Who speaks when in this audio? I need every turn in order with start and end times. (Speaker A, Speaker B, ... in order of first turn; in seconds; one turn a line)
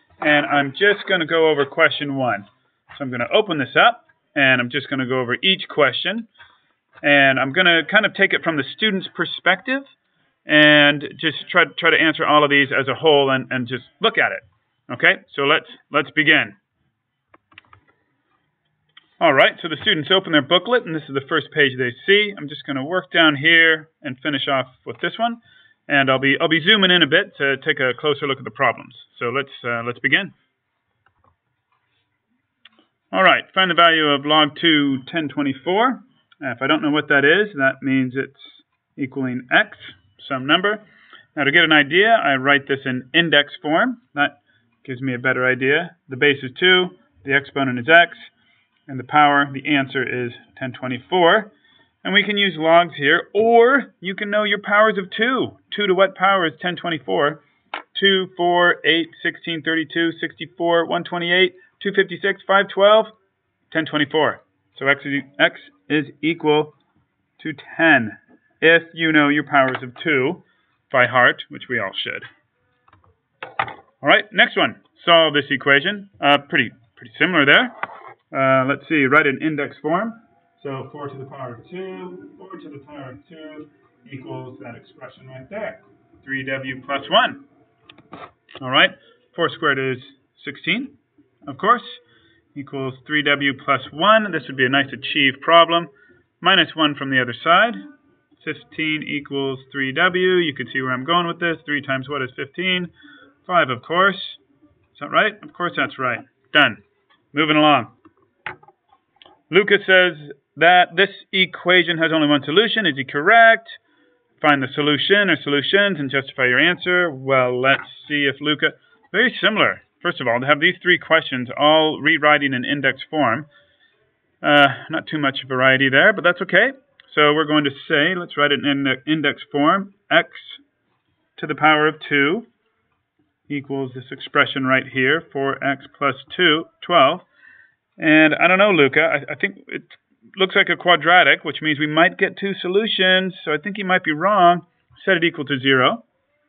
Speaker A: 0.2-6.3
Speaker A: 7.0-9.9
Speaker A: 10.5-16.6
Speaker A: 19.2-30.4
Speaker A: 33.1-40.8
Speaker A: 41.4-48.3
Speaker A: 48.9-51.5
Speaker A: 52.0-57.4
Speaker A: 57.9-63.1
Speaker A: 63.7-66.8
Speaker A: 67.4-72.3
Speaker A: 74.0-77.8
Speaker A: 78.3-87.4
Speaker A: 88.6-92.0
Speaker A: 92.5-95.9
Speaker A: 96.4-97.8
Speaker A: 98.4-102.9
Speaker A: 103.5-104.4
Speaker A: 104.9-106.8
Speaker A: 107.3-107.9
Speaker A: 109.5-113.8
Speaker A: 114.4-123.5
Speaker A: 124.4-130.6
Speaker A: 131.4-132.5
Speaker A: 133.5-137.3
Speaker A: 138.0-146.1